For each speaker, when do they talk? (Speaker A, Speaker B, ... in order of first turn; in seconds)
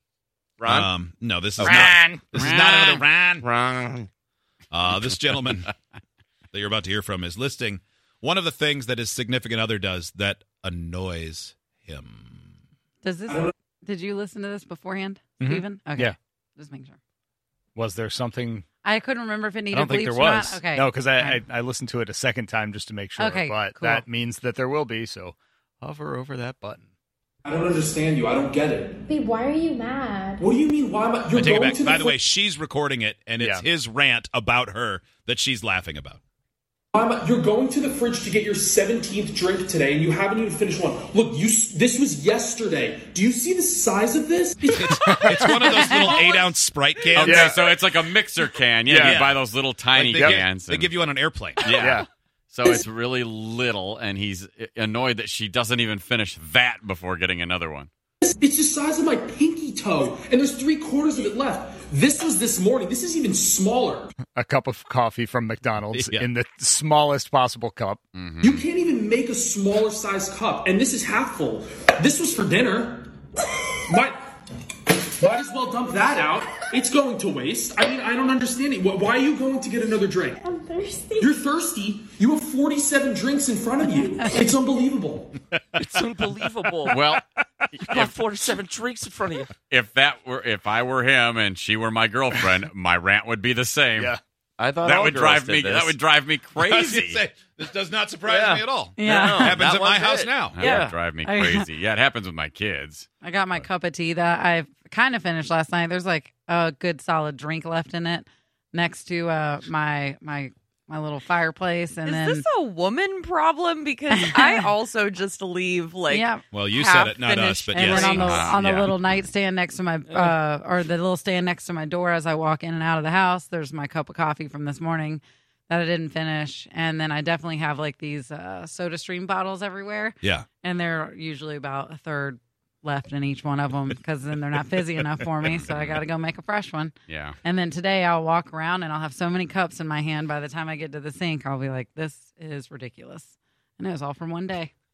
Speaker A: 0.6-0.9, 1.6-1.9, 3.4-4.1, 85.8-87.0, 87.9-89.5, 94.6-96.0, 98.3-101.0, 120.1-120.4
Speaker B: 0.7-3.5, 4.7-5.7, 6.5-12.5, 31.3-36.2, 44.7-47.5, 48.9-49.4, 49.9-51.7, 65.9-66.3, 96.6-100.6, 116.5-118.5, 130.2-130.5
Speaker C: 1.6-2.2, 15.4-16.1, 17.8-18.6, 19.7-26.9, 33.4-33.6, 45.0-45.6, 47.2-47.8, 48.8-49.3, 50.1-50.4, 51.8-52.1, 64.3-68.0, 86.9-87.2
Speaker D: 2.3-3.0, 5.3-5.7, 47.1-50.9, 51.6-57.9, 68.1-68.7, 86.9-87.2, 89.6-94.1, 94.8-97.2, 100.5-103.7, 117.8-118.9, 135.5-136.0, 137.1-137.4
Speaker E: 13.0-17.0, 18.8-21.4, 23.2-24.0, 45.4-46.3, 99.0-99.6, 101.2-101.7, 103.2-112.4, 114.1-114.7, 116.1-116.4, 117.7-144.7
Speaker F: 27.4-29.1, 30.4-32.2, 36.9-46.1, 58.2-64.1, 68.4-73.1, 73.8-74.2, 75.2-80.4, 81.2-85.4
Speaker G: 29.1-30.4, 80.4-81.3, 84.0-84.3
Speaker H: 112.0-118.5